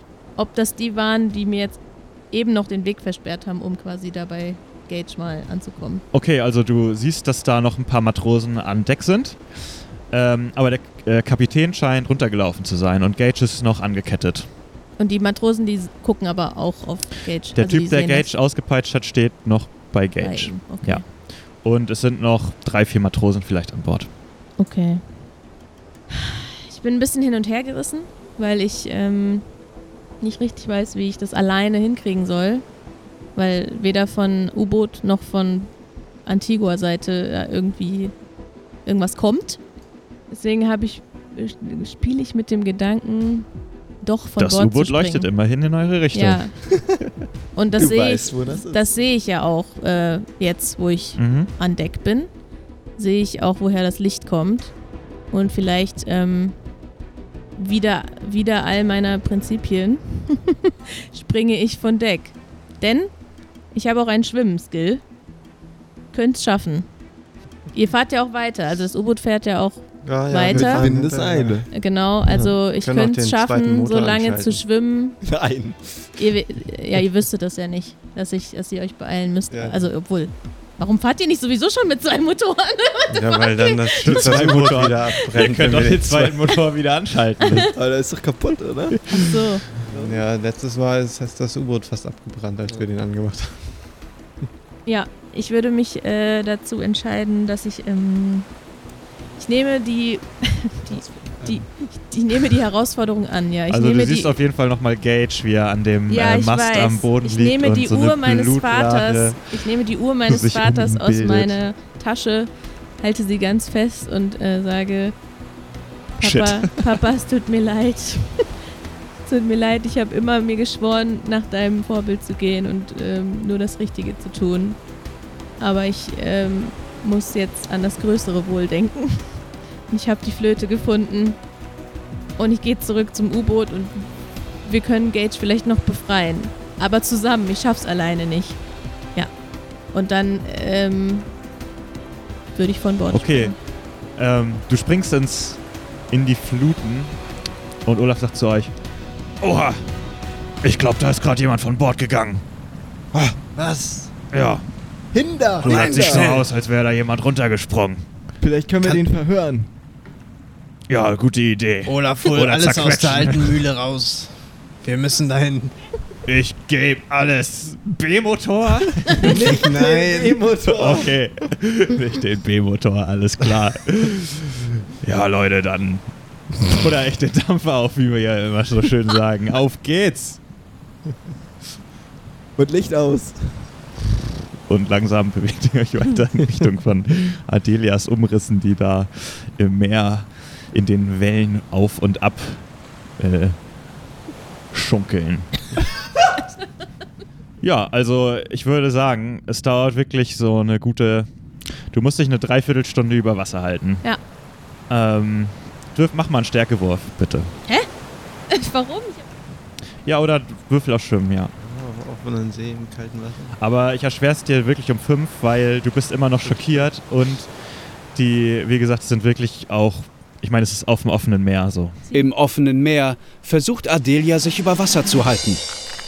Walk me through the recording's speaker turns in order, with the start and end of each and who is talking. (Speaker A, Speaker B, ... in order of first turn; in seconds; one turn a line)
Speaker A: 0.4-6.0
Speaker B: 6.1-14.5
Speaker A: 15.0-18.3
Speaker B: 17.5-24.1
Speaker A: 20.2-21.1
Speaker A: 24.6-25.1
Speaker A: 26.1-29.6
Speaker A: 30.2-32.8
Speaker A: 33.3-38.2
Speaker A: 38.8-39.7
Speaker A: 40.3-45.3
Speaker B: 44.4-47.0
Speaker A: 46.1-46.6
Speaker A: 47.5-52.3
Speaker C: 47.8-48.9
Speaker B: 51.2-51.5
Speaker A: 53.0-56.6
Speaker A: 57.6-65.0
Speaker A: 66.1-66.9
Speaker A: 67.7-70.9
Speaker D: 70.0-71.7
Speaker C: 70.4-71.7
Speaker A: 71.7-75.2
Speaker D: 72.2-74.6
Speaker C: 75.2-76.1
Speaker A: 76.2-84.3
Speaker D: 79.5-79.8
Speaker D: 83.1-86.4
Speaker B: 84.0-87.7
Speaker C: 87.8-89.0
Speaker A: 89.1-89.7
Speaker D: 89.9-93.9
Speaker C: 89.9-90.2
Speaker A: 94.8-98.6
Speaker A: 99.4-104.3
Speaker B: 103.7-109.7
Speaker A: 106.1-115.2
Speaker B: 110.3-111.6
Speaker A: 116.2-118.5
Speaker B: 116.2-117.0
Speaker A: 119.2-124.9
Speaker A: 125.6-131.5
Speaker A: 132.4-141.3
Speaker A: 142.5-143.6
Speaker B: 143.1-147.2
Speaker B: 147.8-148.8
Speaker B: 149.4-149.8
Speaker B: 150.6-152.4
Speaker D: 153.5-154.1
Speaker B: 154.3-154.7
Speaker C: 155.1-156.3
Speaker D: 155.6-156.5
Speaker B: 155.6-158.1
Speaker C: 158.4-159.7
Speaker B: 160.9-163.6
Speaker D: 161.9-165.9
Speaker B: 166.3-169.4
Speaker D: 169.2-170.6
Speaker C: 169.2-171.2
Speaker B: 170.7-180.4
Speaker C: 182.6-183.7
Speaker B: 184.7-193.6
Speaker B: 194.7-195.7
Speaker B: 197.6-201.3
Speaker B: 201.9-204.2
Speaker B: 204.9-207.6
Speaker A: 207.7-207.9
Speaker A: 208.5-209.3
Speaker B: 210.1-211.5
Speaker D: 211.6-213.6
Speaker B: 213.6-222.0
Speaker D: 216.4-216.8
Speaker E: 222.1-225.7